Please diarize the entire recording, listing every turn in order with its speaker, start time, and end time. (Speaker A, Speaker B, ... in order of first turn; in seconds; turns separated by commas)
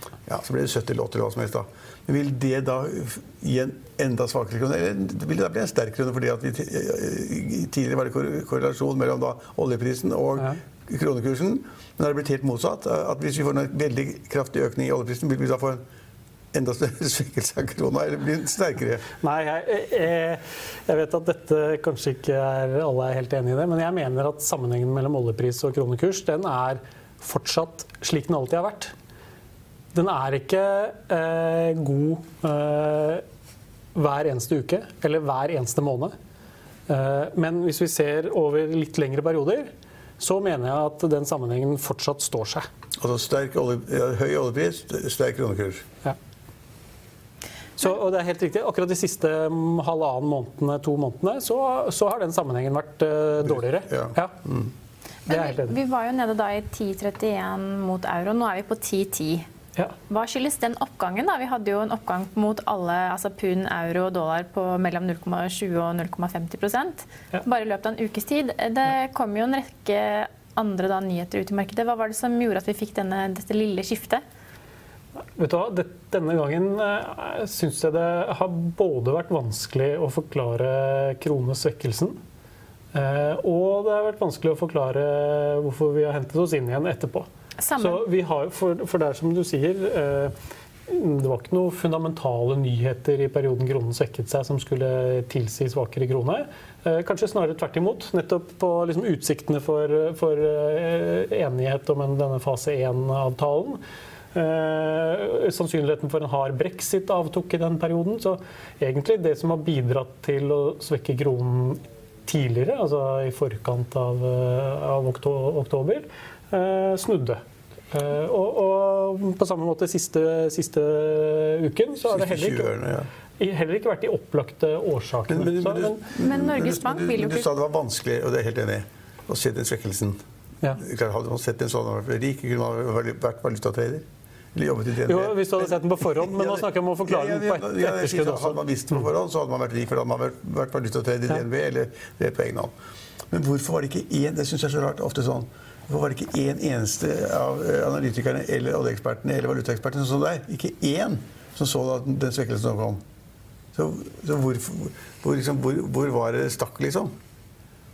Speaker A: 0.3-15.8, Speaker A: 16.5-19.1, Speaker B: 19.2-28.9, Speaker B: 29.9-33.2, Speaker B: 33.9-36.1, Speaker B: 36.9-42.6, Speaker A: 43.0-45.8, Speaker B: 47.8-54.4, Speaker A: 53.4-54.7, Speaker B: 55.3-55.8, Speaker C: 55.3-59.5, Speaker C: 60.1-74.2, Speaker B: 75.3-82.2, Speaker B: 82.9-87.3, Speaker C: 87.6-88.0, Speaker B: 87.8-90.3, Speaker B: 90.9-103.8, Speaker B: 104.3-117.4, Speaker B: 117.9-122.8, Speaker A: 122.0-123.1, Speaker B: 123.4-126.0, Speaker A: 125.3-130.2, Speaker C: 126.2-127.5, Speaker A: 130.8-142.7, Speaker B: 135.0-139.0, Speaker A: 143.3-153.0, Speaker A: 153.8-157.1